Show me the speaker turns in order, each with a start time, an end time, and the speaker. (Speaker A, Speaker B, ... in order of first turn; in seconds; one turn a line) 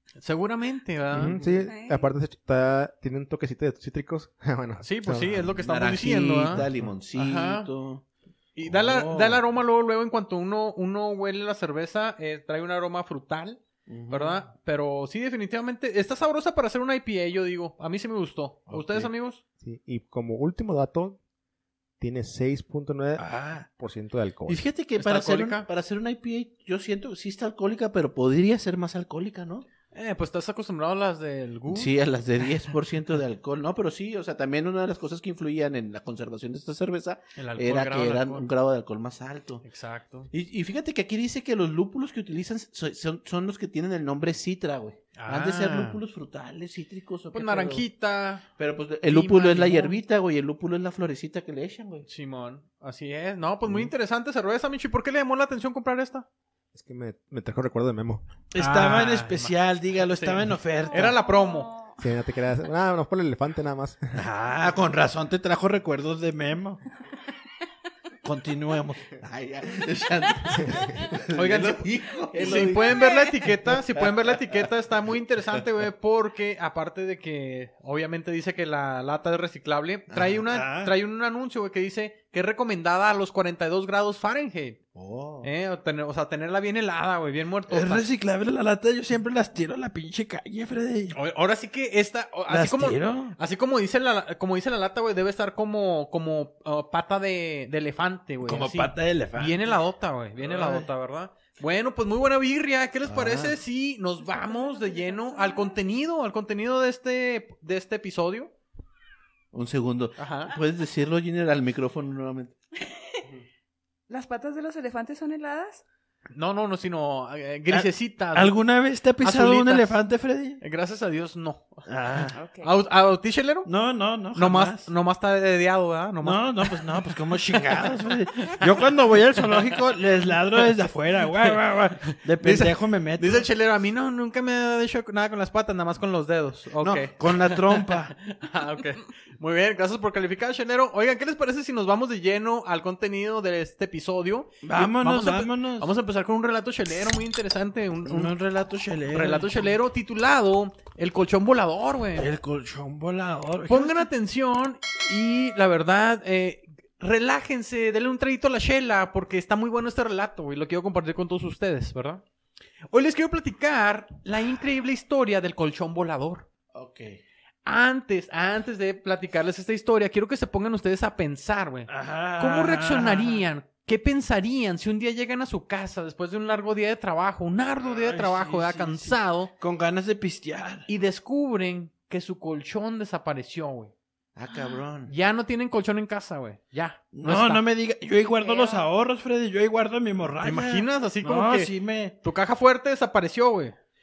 Speaker A: 0.2-1.4
Speaker B: 1.1-5.5
Speaker C: 1.3-1.7
Speaker D: 1.6-2.0
Speaker A: 4.8-7.7
Speaker C: 5.6-8.0
Speaker A: 8.6-19.4
Speaker C: 8.7-9.4
Speaker C: 13.9-14.4
Speaker C: 18.7-19.1
Speaker B: 19.6-21.2
Speaker B: 22.0-24.6
Speaker E: 23.2-23.6
Speaker C: 24.5-29.7
Speaker A: 25.0-25.6
Speaker A: 29.9-31.9
Speaker C: 31.7-39.6
Speaker A: 37.4-38.5
Speaker A: 39.6-40.3
Speaker C: 40.3-47.8
Speaker A: 45.2-46.0
Speaker A: 47.3-48.5
Speaker C: 48.6-52.1
Speaker A: 49.1-50.0
Speaker A: 52.1-56.3
Speaker C: 53.6-53.9
Speaker B: 56.7-58.3
Speaker E: 58.5-61.1
Speaker A: 58.6-61.7
Speaker D: 60.9-62.0
Speaker B: 62.0-64.1
Speaker E: 64.1-66.8
Speaker C: 64.6-65.4
Speaker E: 68.2-69.1
Speaker C: 69.1-73.5
Speaker A: 71.3-84.8
Speaker D: 72.4-73.3
Speaker C: 74.0-74.3
Speaker C: 80.1-80.4
Speaker E: 80.5-80.9
Speaker C: 85.0-85.5
Speaker A: 85.4-88.1
Speaker E: 87.7-91.2
Speaker A: 91.1-108.5
Speaker E: 92.5-93.4
Speaker E: 98.4-99.8
Speaker E: 100.4-100.9
Speaker C: 103.1-103.6
Speaker D: 104.2-105.8
Speaker C: 109.5-112.5
Speaker A: 110.2-110.5
Speaker D: 112.9-113.2
Speaker D: 114.1-115.8
Speaker A: 116.3-118.6
Speaker E: 117.7-120.6
Speaker A: 119.2-120.0
Speaker A: 120.6-121.9
Speaker E: 121.9-122.4
Speaker D: 122.3-122.7
Speaker A: 122.5-123.7
Speaker E: 123.7-124.9
Speaker A: 124.3-126.8
Speaker E: 126.2-133.5
Speaker A: 127.6-128.8
Speaker A: 129.4-129.8
Speaker A: 131.4-148.3
Speaker C: 136.8-137.1
Speaker E: 137.1-138.2
Speaker E: 144.6-145.9
Speaker E: 148.1-149.6
Speaker A: 149.1-152.3
Speaker E: 152.2-154.1
Speaker A: 153.7-162.2
Speaker A: 162.9-166.5
Speaker C: 166.7-167.2
Speaker A: 167.7-179.5
Speaker E: 171.9-173.4
Speaker E: 177.8-180.9
Speaker A: 180.9-183.9
Speaker C: 184.4-185.1
Speaker D: 184.5-184.8
Speaker A: 185.1-187.7
Speaker E: 187.1-192.2
Speaker D: 188.4-188.8
Speaker A: 190.4-193.8